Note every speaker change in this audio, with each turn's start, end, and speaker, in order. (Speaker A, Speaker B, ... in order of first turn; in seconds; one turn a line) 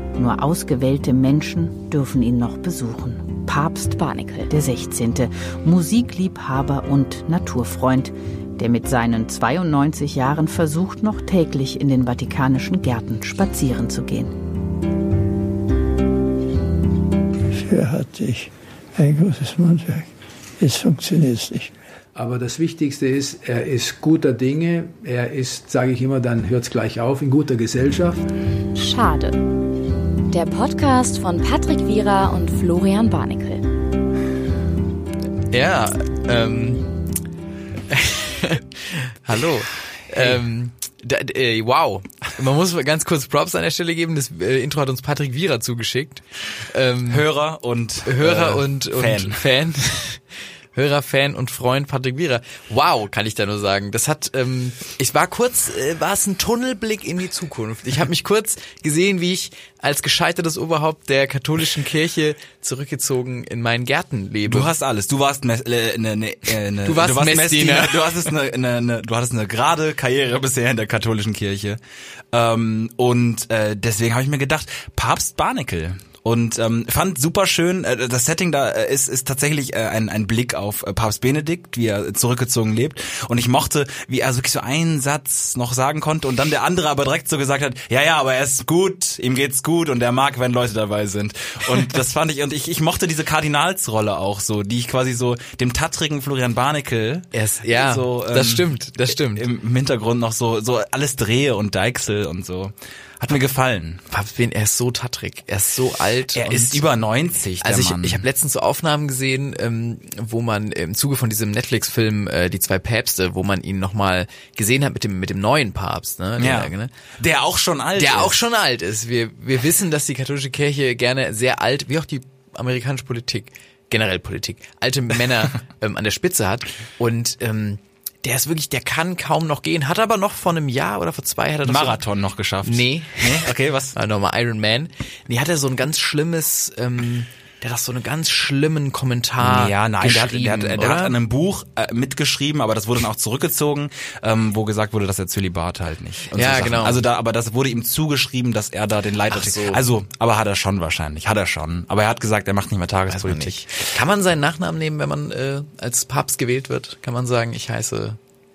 Speaker A: 0.1-3.9
Speaker B: 3.9-4.5
Speaker A: 4.5-14.3
Speaker C: 17.5-21.8
Speaker D: 22.1-28.2
Speaker B: 28.7-29.4
Speaker B: 30.3-33.6
Speaker E: 35.5-36.9
Speaker E: 37.9-47.3
Speaker F: 47.1-49.4
Speaker E: 48.0-50.2
Speaker E: 50.7-64.7
Speaker F: 64.5-71.8
Speaker E: 66.8-68.2
Speaker F: 72.3-104.0
Speaker E: 97.3-99.5
Speaker E: 104.1-106.8
Speaker F: 106.3-108.2
Speaker E: 107.6-116.9
Speaker F: 116.4-118.4
Speaker E: 118.0-132.0
Speaker F: 131.6-133.9
Speaker E: 132.6-141.1
Speaker F: 139.4-153.8
Speaker E: 146.3-147.0
Speaker E: 149.3-149.8
Speaker E: 153.1-158.2